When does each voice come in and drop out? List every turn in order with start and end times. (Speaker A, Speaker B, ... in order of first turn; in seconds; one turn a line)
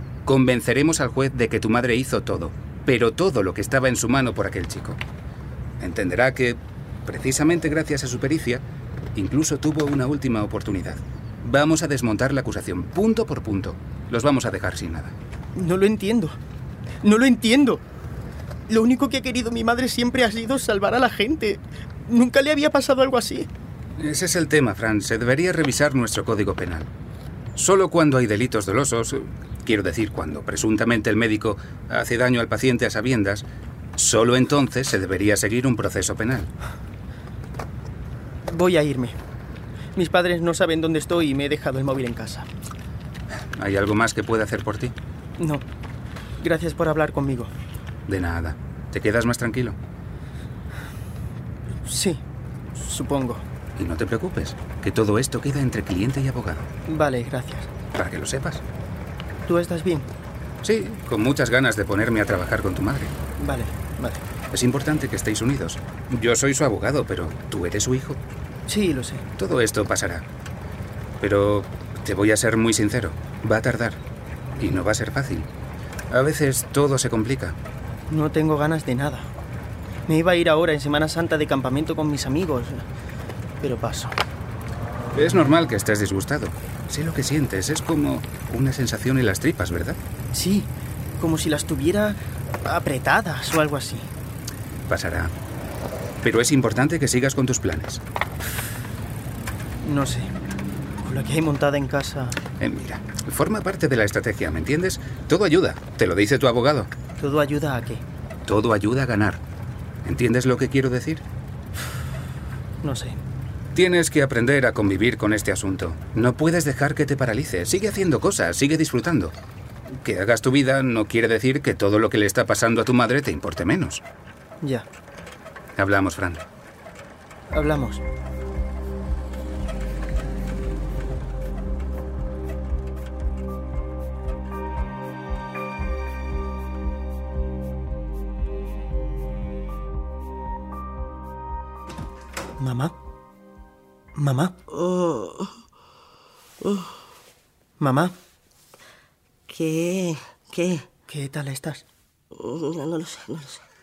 Speaker A: 0.3-5.0
Speaker A: 5.8-8.6
Speaker A: 9.2-15.1
Speaker B: 15.6-16.4
Speaker B: 17.0-17.9
Speaker B: 18.7-23.5
Speaker A: 24.0-26.9
Speaker A: 27.6-33.4
Speaker A: 34.0-36.5
Speaker B: 38.4-39.2
Speaker B: 40.0-42.5
Speaker A: 43.5-44.9
Speaker B: 45.4-45.7
Speaker B: 46.4-47.5
Speaker A: 48.1-49.8
Speaker B: 51.9-53.4
Speaker A: 53.8-56.7
Speaker B: 56.9-57.7
Speaker A: 57.9-58.6
Speaker B: 59.5-60.1
Speaker A: 60.6-63.1
Speaker B: 63.4-64.2
Speaker A: 64.5-68.2
Speaker B: 68.7-69.2
Speaker A: 69.4-70.2
Speaker A: 71.2-74.0
Speaker A: 74.6-75.5
Speaker A: 76.1-77.6
Speaker B: 78.1-79.3
Speaker B: 80.1-82.9
Speaker B: 83.6-84.2
Speaker A: 85.2-90.0
Speaker B: 90.3-94.1
Speaker A: 94.9-95.3
Speaker A: 96.2-98.0
Speaker B: 99.8-100.3
Speaker B: 101.0-102.4
Speaker A: 102.6-106.9
Speaker B: 107.2-108.0
Speaker A: 108.5-109.4
Speaker A: 110.0-111.2
Speaker B: 112.8-113.2
Speaker A: 113.8-119.3
Speaker A: 119.9-124.0
Speaker A: 125.8-126.4
Speaker B: 127.5-128.0
Speaker B: 142.6-142.9
Speaker B: 144.2-144.6
Speaker C: 144.7-145.6
Speaker C: 146.6-147.0
Speaker B: 147.8-148.2
Speaker C: 149.5-150.9
Speaker B: 151.1-151.8
Speaker C: 152.3-153.7